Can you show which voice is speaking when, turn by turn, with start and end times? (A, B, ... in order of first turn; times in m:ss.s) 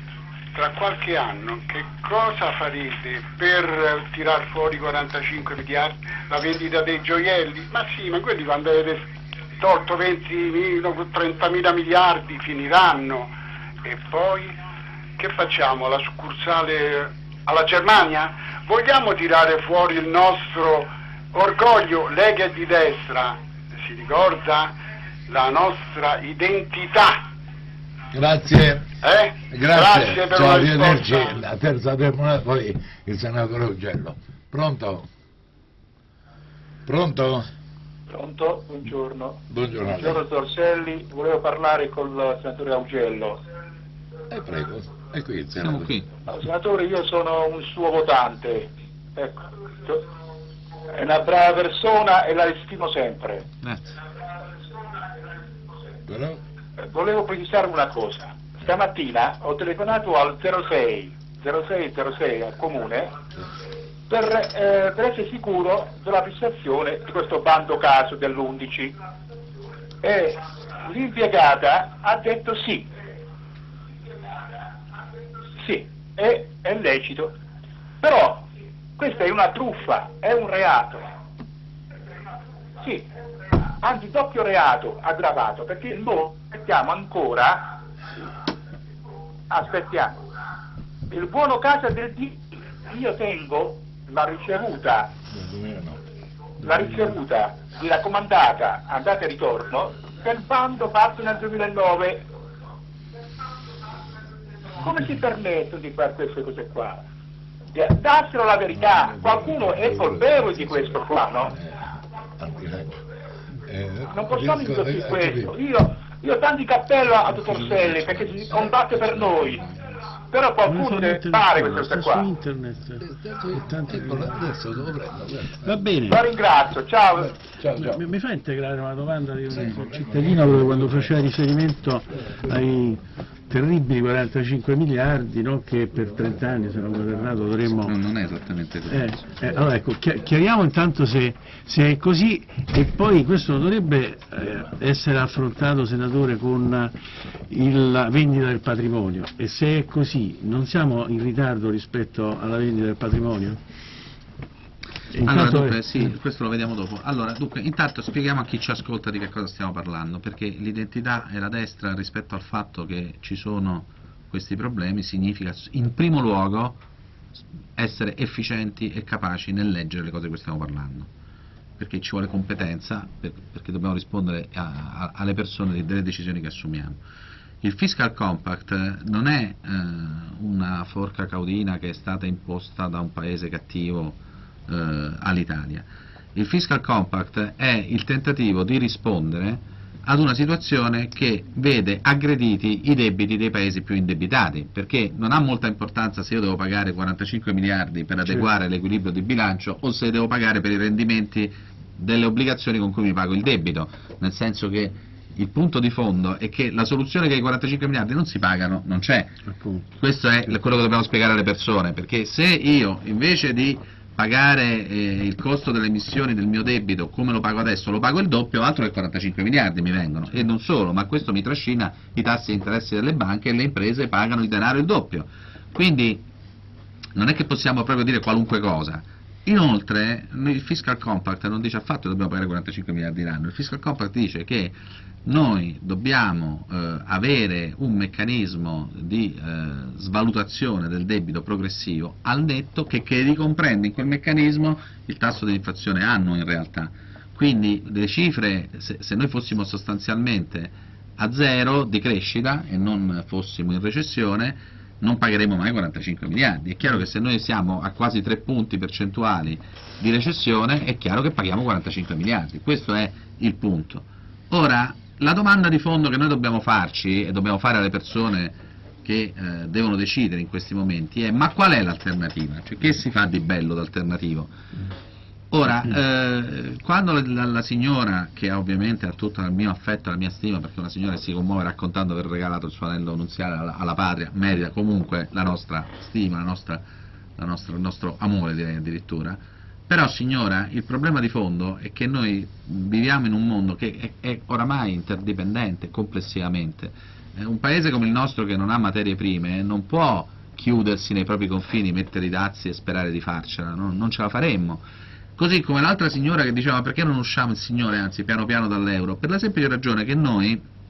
0:00.5-0:09.1 A
0:09.6-0:13.3 A
0:13.8-0:14.5 A
0:15.2-0:24.7 A
0:25.3-0:27.3 A
0:28.1-0:28.9 B
0:29.0-0:31.4 A
0:29.5-0:35.1 B
0:36.8-0:37.4 B
0:38.1-0:43.4 C
0:39.5-0:40.2 B
0:44.3-0:45.9 B
0:45.6-0:46.1 D
0:46.3-0:50.0 C
0:50.9-0:53.4 C
0:53.6-0:54.0 D
0:56.1-0:56.4 B
0:56.8-1:03.1 C
1:04.1-1:08.9 C
1:10.0-1:12.9 C
1:15.6-1:17.3 C
1:18.0-1:18.4 C
1:19.0-1:21.1 C
1:23.8-1:27.7 C
1:29.5-1:30.2 C
1:31.1-1:35.1 C
1:35.3-1:36.0 B
1:36.6-1:42.2 C
1:44.8-1:47.0 C
1:47.7-1:51.5 C
1:48.7-1:53.0 B
1:53.6-1:55.6 B
1:54.1-1:59.6 C
1:58.9-1:59.7 D
2:00.3-2:02.3 C
2:00.6-2:04.4 E
2:03.0-2:05.8 B
2:05.6-2:06.2 E
2:06.1-2:07.3 C
2:07.5-2:08.0 B
2:07.8-2:17.9 E
2:09.5-2:11.1 B
2:17.8-2:19.6 D
2:18.9-2:26.9 E
2:27.5-2:33.6 E
2:35.1-2:35.8 E
2:35.2-2:46.8 D
2:47.8-2:51.1 D
2:51.8-2:57.0 D
2:57.6-3:29.4 D
3:29.4-3:30.0 E
3:30.0-3:46.2 D
3:47.1-4:34.5 D
4:35.5-4:46.8 D
4:47.4-5:04.8 D
5:05.4-5:10.6 D